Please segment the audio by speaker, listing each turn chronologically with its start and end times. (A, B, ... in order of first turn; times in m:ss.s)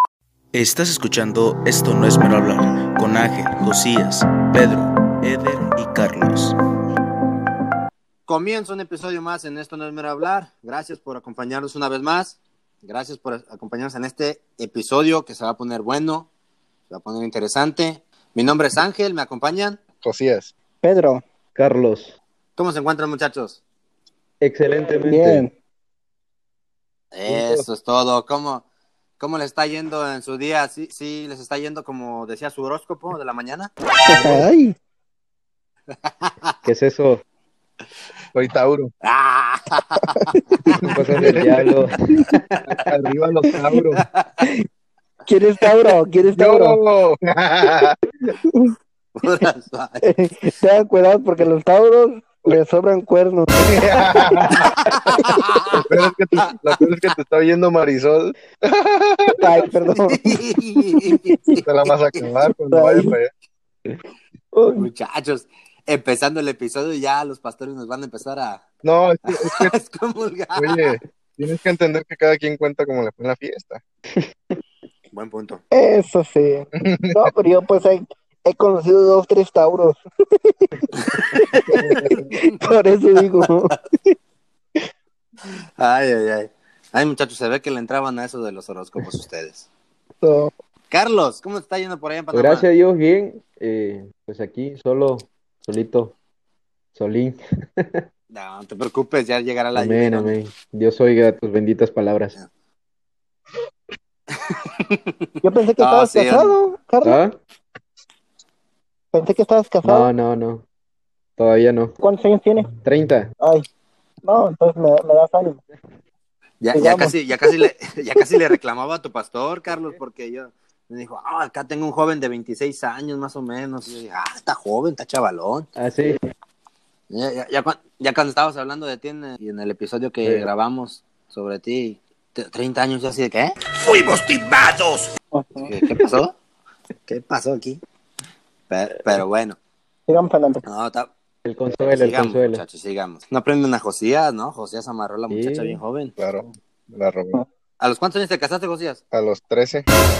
0:00.5-0:06.6 A
0:08.3-0:16.3 B
0:16.9-0:19.8 B
0:20.0-0:20.5 C
0:20.8-0:21.2 D
0:21.6-0:22.2 E
0:22.6-0:23.6 B
0:24.4-0:25.5 E
0:25.1-0:25.5 D
0:27.1-0:28.6 B
0:27.3-0:27.6 C
0:29.2-0:33.7 B
0:34.1-0:34.8 D
0:34.1-0:34.4 C
0:36.6-0:37.2 E
0:38.3-0:38.9 C
0:39.0-0:40.8 B
0:40.8-0:42.0 E
0:41.1-0:41.5 C
0:42.7-0:44.0 C
0:45.3-0:46.8 D
0:46.3-0:48.0 C
0:48.3-0:48.8 D
0:49.2-0:50.0 B
0:50.0-0:55.8 D
0:53.6-0:54.8 C
0:54.9-0:55.9 B
0:55.9-0:59.4 C
0:59.4-1:01.6 D
0:59.9-1:01.6 B
1:01.6-1:03.3 C
1:02.7-1:03.1 D
1:04.5-1:04.9 D
1:04.8-1:08.6 B
1:08.8-1:09.7 C
1:09.3-1:11.0 B
1:10.6-1:13.8 C
1:15.1-1:15.6 B
1:15.7-1:24.2 D
1:16.8-1:17.3 C
1:21.7-1:22.3 C
1:25.8-1:29.7 B
1:30.2-1:30.5 D
1:30.9-1:32.7 B
1:32.3-1:36.1 E
1:37.0-1:38.0 E
1:38.3-1:40.3 B
1:39.8-1:42.4 E
1:44.5-1:46.6 B
1:45.4-1:47.2 D
1:47.0-1:47.4 E
1:49.1-1:50.1 D
1:49.8-1:50.6 E
1:51.4-1:52.0 E
1:52.0-1:52.7 D
1:52.8-1:53.3 E
1:53.4-1:53.7 D
1:54.2-1:55.6 D
1:56.6-2:05.7 B
1:56.7-1:57.7 D
2:05.8-2:06.2 E
2:07.1-2:15.1 B
2:10.2-2:10.5 E
2:15.3-2:15.7 D
2:15.8-2:16.3 B
2:17.1-2:17.8 B
2:18.7-2:19.6 B
2:20.1-2:20.7 D
2:20.6-2:21.1 B
2:21.4-2:22.6 E
2:21.9-2:26.1 B
2:25.3-2:25.8 E
2:26.2-2:27.4 C
2:27.8-2:29.0 B
2:29.1-2:29.9 C